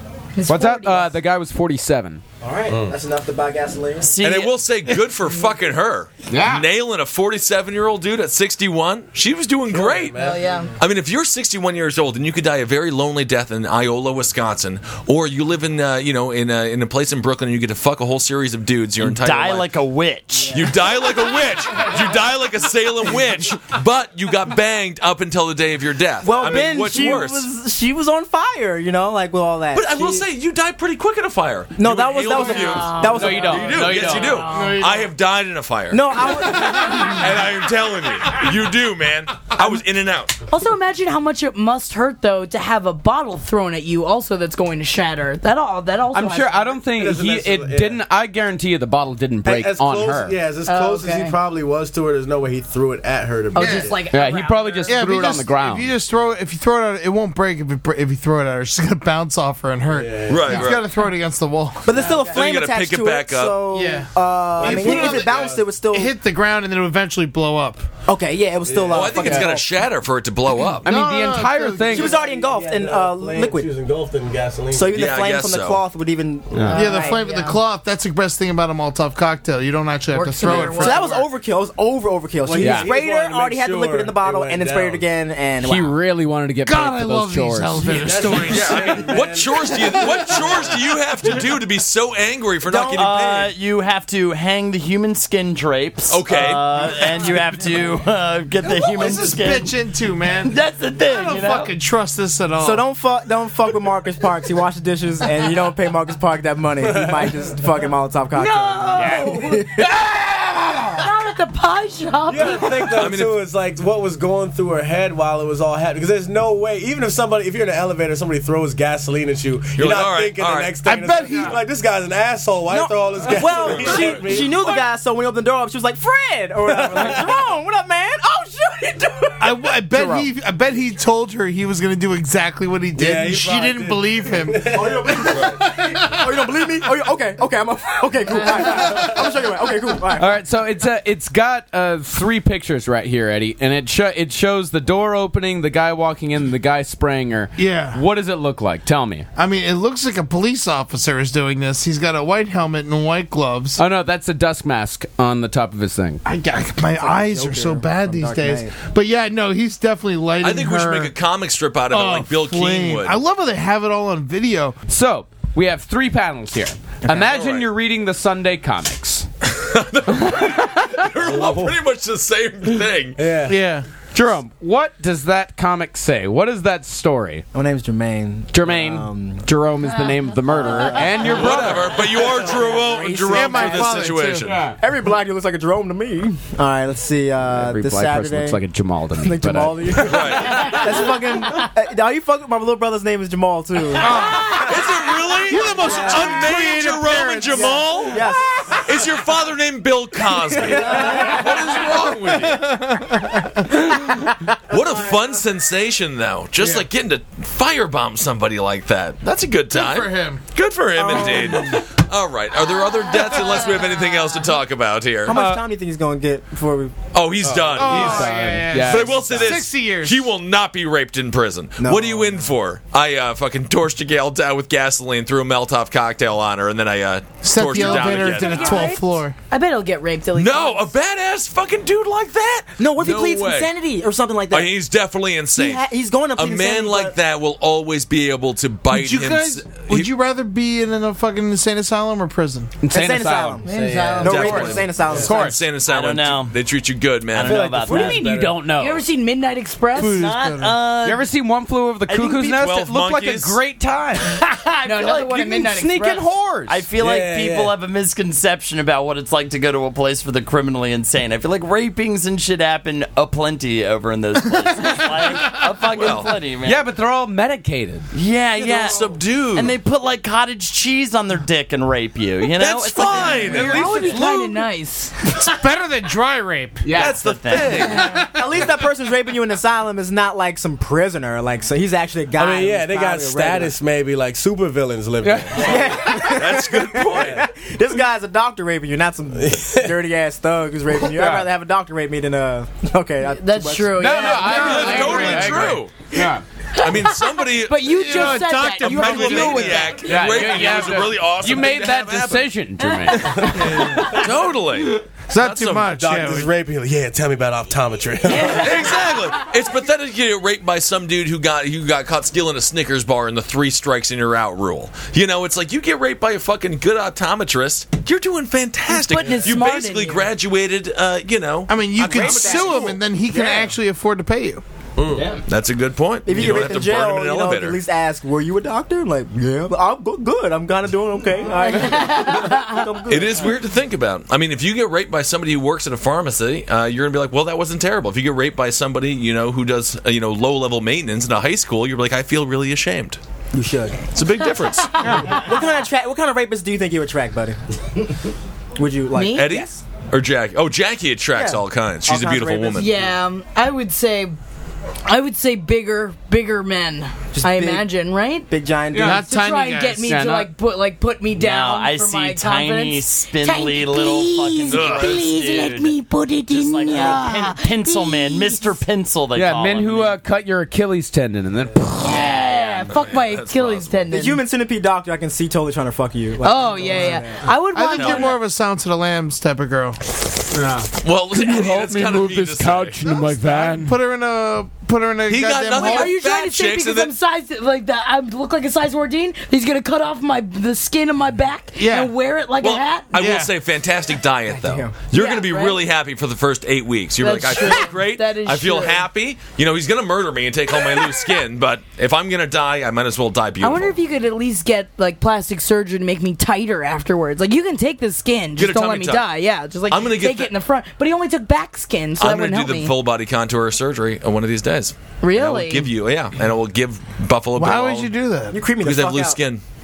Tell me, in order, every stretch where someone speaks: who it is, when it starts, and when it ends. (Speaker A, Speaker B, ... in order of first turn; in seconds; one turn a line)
Speaker A: 0.3-1.1
Speaker B: 0.5-2.2
Speaker C: 2.4-4.2
Speaker D: 2.7-3.0
Speaker E: 4.0-4.6
Speaker F: 4.2-10.2
Speaker B: 6.3-6.7
Speaker D: 9.7-10.7
Speaker A: 10.1-10.7
Speaker F: 10.8-19.7
Speaker E: 19.0-20.7
Speaker F: 20.5-27.5
Speaker C: 26.2-30.3
Speaker F: 29.7-40.4
Speaker C: 31.8-34.0
Speaker A: 32.3-34.9
Speaker B: 33.1-34.5
Speaker G: 34.5-35.1
Speaker C: 35.9-37.1
Speaker A: 40.5-46.8
Speaker B: 46.1-50.4
Speaker D: 46.8-48.0
Speaker D: 49.4-54.1
Speaker A: 50.6-51.4
Speaker A: 53.5-55.5
Speaker G: 53.5-54.0
Speaker B: 54.1-55.9
Speaker G: 54.9-62.0
Speaker D: 59.9-60.5
Speaker F: 60.3-60.9
Speaker C: 61.8-66.1
Speaker A: 62.0-62.4
Speaker F: 62.2-63.7
Speaker G: 63.7-67.9
Speaker D: 64.6-65.6
Speaker C: 68.1-69.7
Speaker D: 68.7-69.6
Speaker F: 68.9-70.9
Speaker G: 70.8-72.1
Speaker B: 70.8-72.2
Speaker C: 71.9-73.7
Speaker D: 71.9-75.2
Speaker C: 74.7-77.6
Speaker F: 74.9-75.8
Speaker B: 76.5-77.0
Speaker G: 76.7-81.0
Speaker A: 76.8-77.3
Speaker A: 80.1-81.3
Speaker C: 80.5-86.0
Speaker D: 82.4-85.0
Speaker B: 82.6-82.9
Speaker B: 85.6-88.1
Speaker G: 86.6-89.2
Speaker D: 87.9-90.5
Speaker F: 88.5-93.5
Speaker C: 92.6-93.4
Speaker E: 92.9-99.7
Speaker F: 96.1-97.1
Speaker G: 98.6-102.8
Speaker E: 100.4-101.7
Speaker C: 102.6-109.9
Speaker D: 106.8-107.4
Speaker A: 108.3-109.9
Speaker B: 109.0-109.3
Speaker A: 111.0-113.0
Speaker D: 112.3-124.7
Speaker F: 113.0-113.4
Speaker F: 119.7-120.8
Speaker G: 120.8-121.6
Speaker C: 122.7-129.6
Speaker D: 126.8-127.2
Speaker G: 129.4-135.4
Speaker B: 129.9-130.3
Speaker D: 132.9-135.2
Speaker C: 134.7-140.4
Speaker B: 140.2-149.3
Speaker G: 147.6-148.0
Speaker G: 149.3-153.8
Speaker B: 153.8-156.2
Speaker G: 156.2-161.1
Speaker C: 156.9-158.8
Speaker F: 160.4-163.2
Speaker G: 161.9-164.8
Speaker B: 164.9-169.3
Speaker F: 167.1-167.7
Speaker F: 169.4-173.2
Speaker B: 170.1-170.9
Speaker D: 171.2-171.8
Speaker D: 173.2-173.6
Speaker G: 173.5-173.9
Speaker B: 174.1-177.4
Speaker C: 177.5-179.4
Speaker B: 178.5-182.0
Speaker A: 179.8-181.2
Speaker C: 180.5-184.2
Speaker F: 181.2-184.7
Speaker G: 183.3-184.5
Speaker B: 184.4-184.7
Speaker C: 184.8-188.6
Speaker B: 187.5-190.0
Speaker C: 189.1-194.4
Speaker F: 190.0-190.8
Speaker G: 193.9-194.9
Speaker F: 194.4-202.7
Speaker G: 195.4-198.3
Speaker C: 195.6-196.5
Speaker C: 197.5-198.8
Speaker G: 200.8-204.3
Speaker C: 200.8-201.3
Speaker F: 204.7-215.4
Speaker G: 206.6-206.8
Speaker G: 209.7-210.4
Speaker G: 211.0-211.8
Speaker C: 215.2-217.0
Speaker B: 215.3-215.6
Speaker F: 217.1-228.9
Speaker D: 217.4-217.8
Speaker G: 217.8-220.3
Speaker B: 217.8-219.5
Speaker C: 221.8-222.5
Speaker G: 227.4-229.3
Speaker A: 227.6-230.9
Speaker F: 230.3-233.7
Speaker C: 232.8-234.7
Speaker F: 234.5-240.1
Speaker C: 235.6-237.1
Speaker G: 238.9-242.7
Speaker B: 242.8-243.6
Speaker C: 242.9-245.3
Speaker A: 243.7-244.7
Speaker D: 243.7-245.4
Speaker B: 244.2-245.6
Speaker F: 244.2-247.7
Speaker E: 245.8-246.5
Speaker E: 247.3-248.3
Speaker B: 247.5-249.0
Speaker D: 247.6-248.6
Speaker A: 248.7-250.3
Speaker G: 249.9-250.8
Speaker E: 249.9-251.3
Speaker B: 251.0-256.8
Speaker E: 252.1-252.6
Speaker F: 252.5-253.6
Speaker E: 254.4-255.4
Speaker A: 254.8-256.2
Speaker E: 256.7-266.8
Speaker D: 257.0-257.7
Speaker G: 264.5-265.6
Speaker F: 265.9-266.4
Speaker B: 266.6-268.1
Speaker E: 268.1-273.8
Speaker F: 268.6-269.7
Speaker F: 272.5-274.0
Speaker A: 273.3-275.1
Speaker B: 273.4-274.6
Speaker G: 275.2-276.9
Speaker B: 276.8-277.2
Speaker F: 276.9-278.2
Speaker E: 276.9-278.0
Speaker G: 278.0-278.3
Speaker C: 278.1-283.7
Speaker D: 282.4-286.0
Speaker B: 285.2-285.5
Speaker C: 285.6-294.2
Speaker F: 286.0-287.4
Speaker D: 287.0-287.4
Speaker D: 289.3-290.0
Speaker B: 291.1-291.5
Speaker A: 293.2-295.4
Speaker B: 294.0-296.4
Speaker G: 294.4-295.8
Speaker F: 294.4-296.0
Speaker A: 296.7-300.6
Speaker F: 296.8-302.5
Speaker G: 297.8-299.9
Speaker B: 300.0-304.1
Speaker A: 302.8-303.8
Speaker G: 303.6-304.2
Speaker F: 304.0-305.9
Speaker G: 305.3-306.5
Speaker D: 305.9-308.7
Speaker F: 308.3-323.0
Speaker A: 308.4-309.3
Speaker A: 318.9-320.3
Speaker G: 321.7-324.6
Speaker C: 322.0-323.7
Speaker D: 325.0-325.3
Speaker E: 325.1-325.4
Speaker F: 325.4-327.8
Speaker C: 326.2-333.6
Speaker A: 331.6-333.0
Speaker F: 333.1-343.2
Speaker C: 343.5-344.1
Speaker F: 344.1-345.1
Speaker A: 345.0-345.4
Speaker C: 345.0-348.0
Speaker C: 348.8-349.5
Speaker A: 349.1-349.8
Speaker F: 349.3-352.9
Speaker C: 351.3-353.1
Speaker A: 352.7-354.4
Speaker A: 355.1-358.5
Speaker C: 357.3-357.9
Speaker C: 358.5-359.3
Speaker G: 358.9-360.1
Speaker A: 359.0-368.7
Speaker B: 360.1-360.5
Speaker E: 361.4-370.2
Speaker F: 364.7-365.3
Speaker B: 369.3-372.3
Speaker A: 372.0-374.4
Speaker E: 372.3-372.9
Speaker F: 372.8-374.0
Speaker C: 374.1-377.5
Speaker A: 376.4-378.4
Speaker G: 377.7-380.0
Speaker E: 378.0-378.3
Speaker B: 380.5-383.9
Speaker F: 381.0-383.1
Speaker G: 383.1-386.2
Speaker F: 385.3-387.1
Speaker A: 385.7-393.2
Speaker G: 391.8-392.1
Speaker F: 392.6-403.9
Speaker G: 393.1-393.5
Speaker C: 394.5-394.9
Speaker A: 395.1-395.8
Speaker A: 397.2-399.1
Speaker A: 403.6-413.0
Speaker F: 408.5-409.3
Speaker F: 409.9-410.5
Speaker F: 412.2-418.1
Speaker A: 415.2-415.9
Speaker G: 417.5-418.6
Speaker C: 418.5-419.4
Speaker F: 418.8-419.6